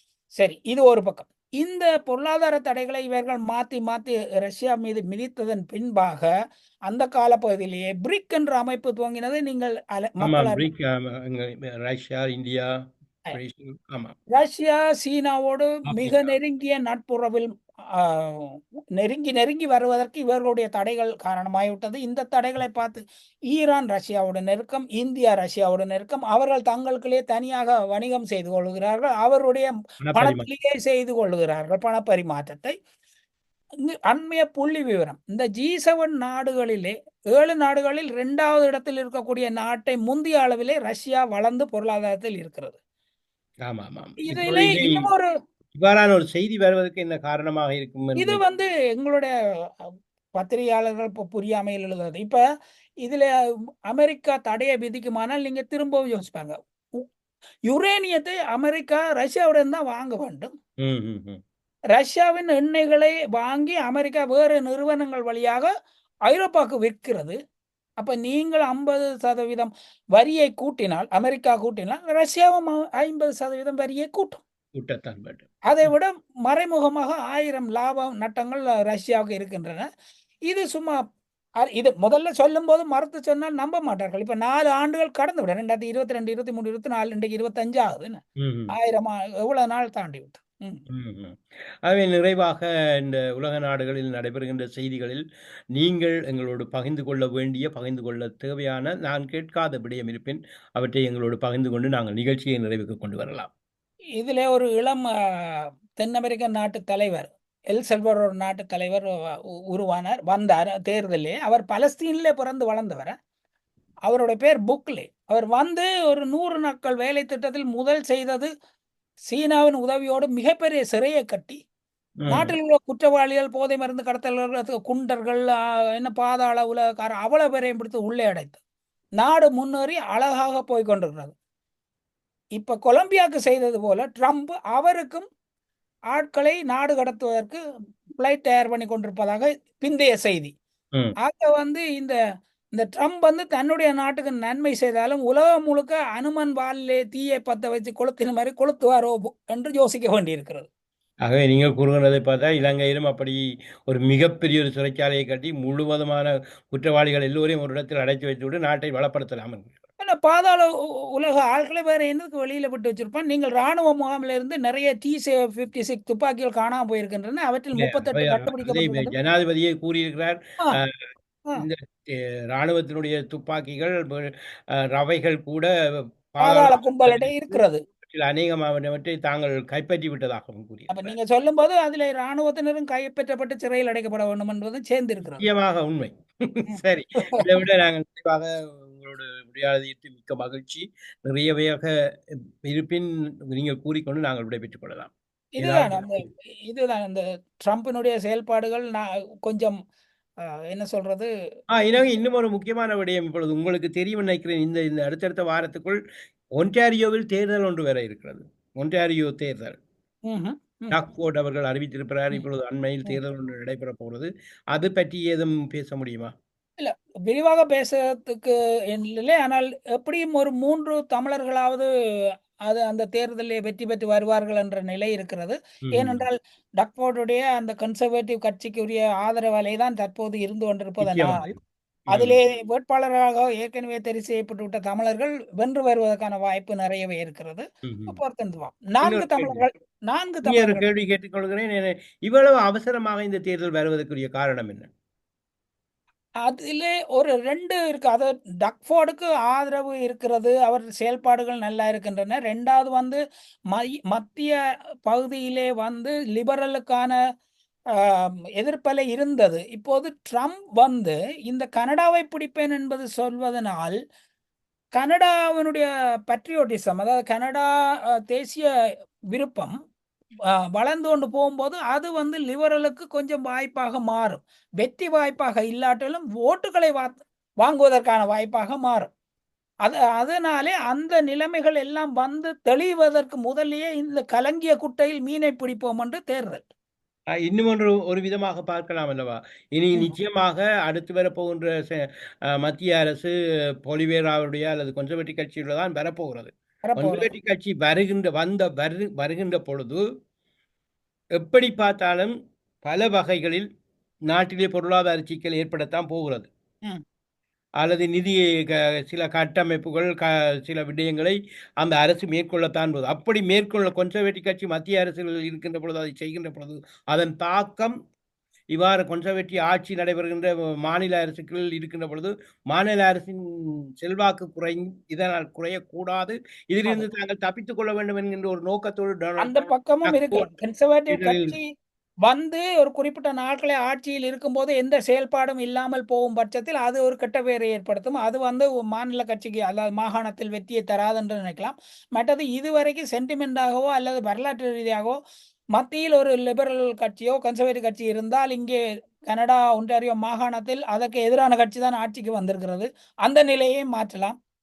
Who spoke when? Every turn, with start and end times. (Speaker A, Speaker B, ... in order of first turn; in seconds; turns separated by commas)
Speaker A: 0.4-6.3, Speaker A: 6.9-10.7, Speaker B: 10.2-12.7, Speaker B: 13.3-14.2, Speaker A: 14.3-32.7, Speaker B: 15.9-16.3, Speaker B: 30.0-30.5, Speaker A: 33.9-42.8, Speaker B: 43.7-45.1, Speaker A: 44.2-45.3, Speaker B: 45.7-48.4, Speaker A: 48.2-49.3, Speaker A: 50.4-52.4, Speaker A: 53.0-53.3, Speaker A: 53.9-57.0, Speaker A: 57.7-60.5, Speaker B: 60.8-61.4, Speaker A: 61.9-65.7, Speaker A: 66.3-67.3, Speaker A: 68.0-74.4, Speaker B: 74.7-75.9, Speaker A: 75.7-79.9, Speaker A: 80.5-81.0, Speaker A: 81.6-90.8, Speaker B: 88.4-88.7, Speaker B: 90.9-95.2, Speaker B: 95.7-103.5, Speaker A: 104.2-109.1, Speaker A: 109.7-113.1, Speaker A: 114.1-118.5, Speaker A: 119.2-121.6, Speaker B: 122.2-122.5, Speaker A: 122.3-128.6, Speaker A: 129.2-131.3, Speaker A: 132.6-135.2, Speaker A: 136.1-137.6, Speaker A: 138.2-140.5, Speaker A: 141.2-142.1, Speaker A: 142.7-150.7, Speaker B: 151.2-159.8, Speaker A: 160.0-169.1, Speaker B: 167.8-174.3, Speaker B: 174.9-175.7, Speaker B: 176.3-181.1, Speaker A: 176.4-177.8, Speaker A: 180.9-185.4, Speaker B: 185.2-191.9, Speaker A: 186.7-187.4, Speaker B: 192.6-196.2, Speaker A: 195.6-199.7, Speaker A: 200.7-201.3, Speaker B: 201.7-206.0, Speaker B: 206.6-209.8, Speaker A: 210.2-211.0, Speaker B: 210.9-216.3, Speaker A: 216.8-221.9, Speaker A: 222.7-231.5, Speaker B: 225.8-226.2, Speaker B: 231.0-231.5, Speaker B: 232.1-232.4, Speaker A: 232.1-240.9, Speaker B: 237.8-238.2, Speaker B: 239.0-239.7, Speaker B: 240.4-244.9, Speaker A: 246.4-253.2, Speaker A: 253.7-257.1, Speaker A: 258.0-264.0, Speaker A: 264.9-268.7, Speaker A: 269.3-269.7, Speaker A: 270.7-279.1, Speaker A: 279.8-286.6, Speaker B: 287.4-293.3, Speaker B: 293.8-300.0, Speaker A: 296.9-297.3, Speaker B: 301.4-302.3, Speaker B: 302.8-303.7, Speaker B: 304.3-306.5, Speaker B: 307.8-317.9, Speaker B: 318.7-330.5, Speaker A: 329.4-331.6, Speaker B: 331.1-331.6, Speaker A: 332.2-345.2, Speaker A: 345.7-354.4